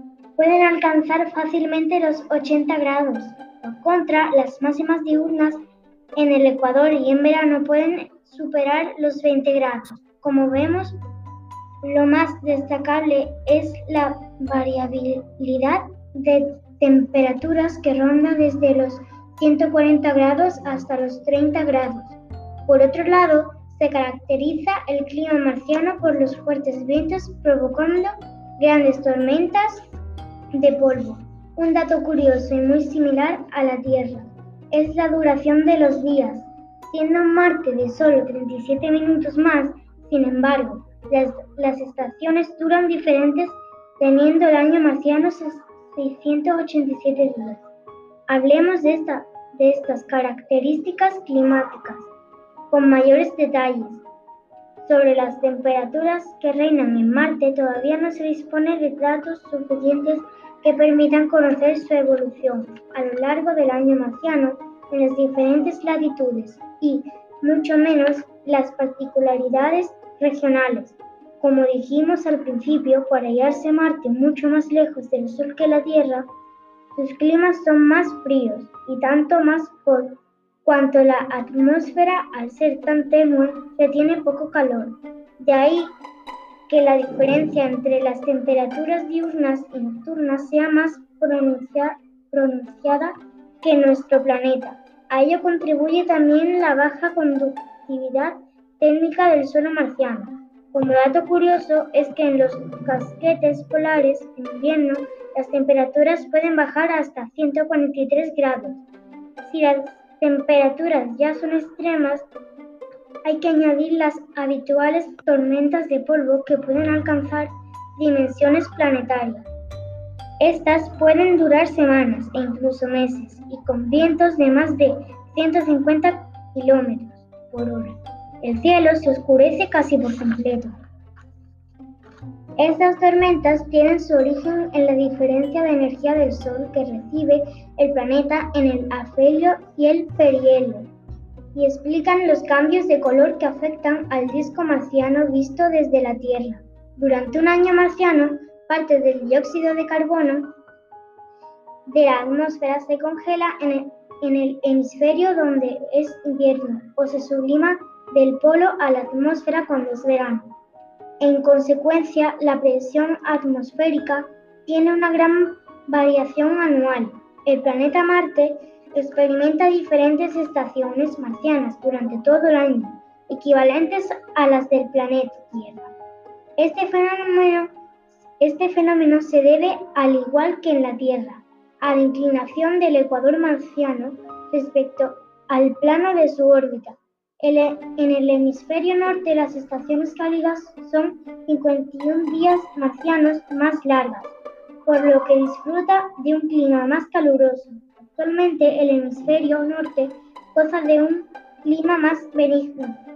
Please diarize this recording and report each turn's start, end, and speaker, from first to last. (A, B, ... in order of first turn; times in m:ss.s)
0:00.4-0:05.6 A
0:06.2-0:11.0 A
0:11.8-0:29.8 A
0:30.5-0:47.6 A
0:48.3-0:52.1 A
0:52.7-0:54.0 A
0:54.8-1:16.3 A
1:16.9-1:25.9 A
1:26.7-1:48.8 A
1:49.4-1:52.2 A
1:53.2-1:59.4 A
2:00.4-2:10.7 A
2:12.6-2:20.9 A
2:21.5-2:30.5 A
2:31.8-2:40.5 A
2:41.2-2:55.9 A
2:56.6-2:57.7 A
2:58.4-3:14.3 A
3:14.8-3:23.0 A